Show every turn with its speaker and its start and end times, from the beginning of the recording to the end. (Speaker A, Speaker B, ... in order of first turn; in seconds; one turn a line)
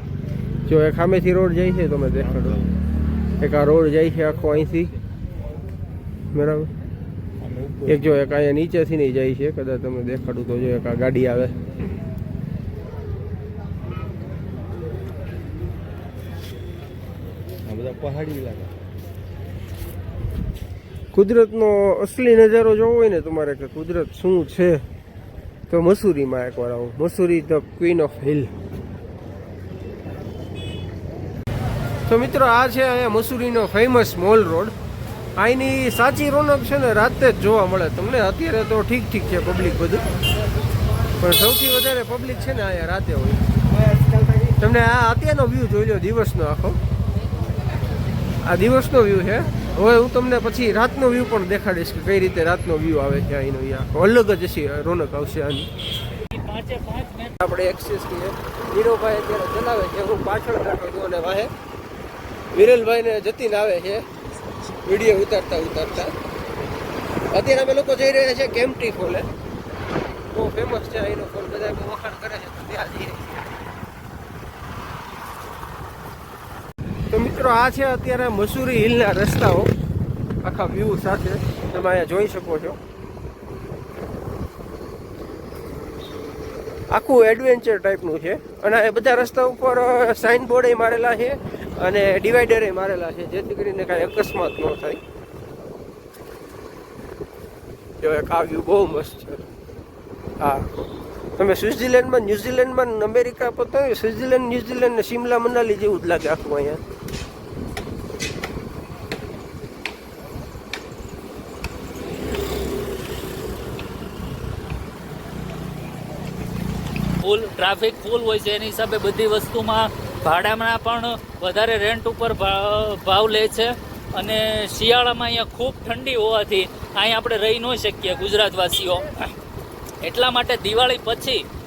Speaker A: 0.7-2.6
Speaker B: 2.3-2.8
Speaker A: 3.4-4.9
Speaker A: 6.3-6.7
Speaker B: 7.4-8.2
Speaker A: 7.9-11.5
Speaker B: 17.6-18.7
Speaker A: 21.1-24.8
Speaker A: 25.7-28.5
Speaker A: 32.1-34.7
Speaker A: 35.4-40.0
Speaker A: 41.2-43.5
Speaker A: 44.5-46.8
Speaker A: 48.4-55.7
Speaker C: 56.3-57.4
Speaker A: 57.4-61.5
Speaker A: 62.5-64.0
Speaker A: 64.8-66.1
Speaker A: 67.3-69.2
Speaker A: 70.3-73.4
Speaker A: 77.1-79.7
Speaker A: 80.4-82.8
Speaker A: 86.9-95.0
Speaker A: 98.0-99.4
Speaker A: 100.4-106.8
Speaker C: 117.2-129.3
Speaker C: 130.0-131.4